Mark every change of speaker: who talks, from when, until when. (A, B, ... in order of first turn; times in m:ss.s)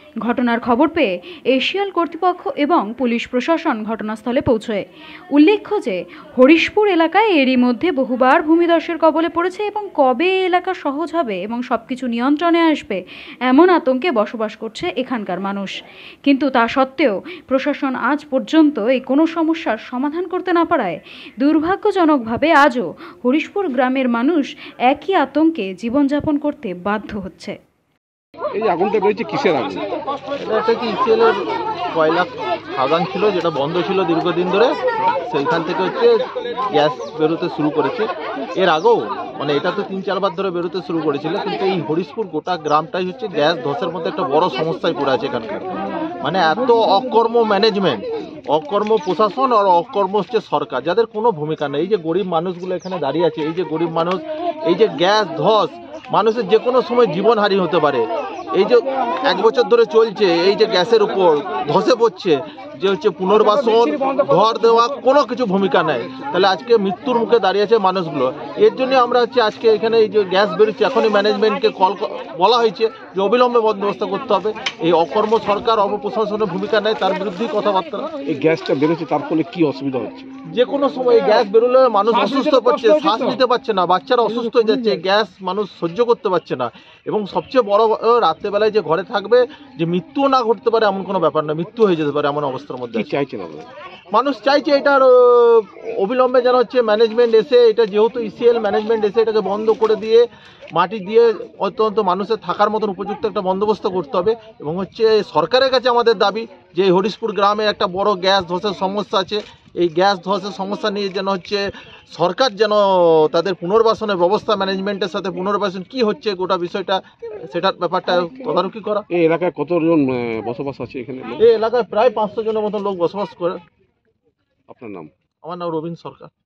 0:00.2-0:04.8 A
0:05.3-0:15.7 A
0:16.2-0:27.6 A
0:28.5-0:29.8 B
0:30.4-0:31.4 C
0:31.9-0:36.2 C
0:36.7-0:45.7 C
0:46.2-1:18.1 C
1:18.3-1:20.3 B
1:20.5-1:33.1 C
1:32.9-1:33.7 B
1:34.1-1:40.2 C
1:40.8-1:59.0 C
1:59.1-2:01.4 B
2:01.4-2:03.6 C
2:04.7-2:05.1 B
2:05.4-2:06.3 C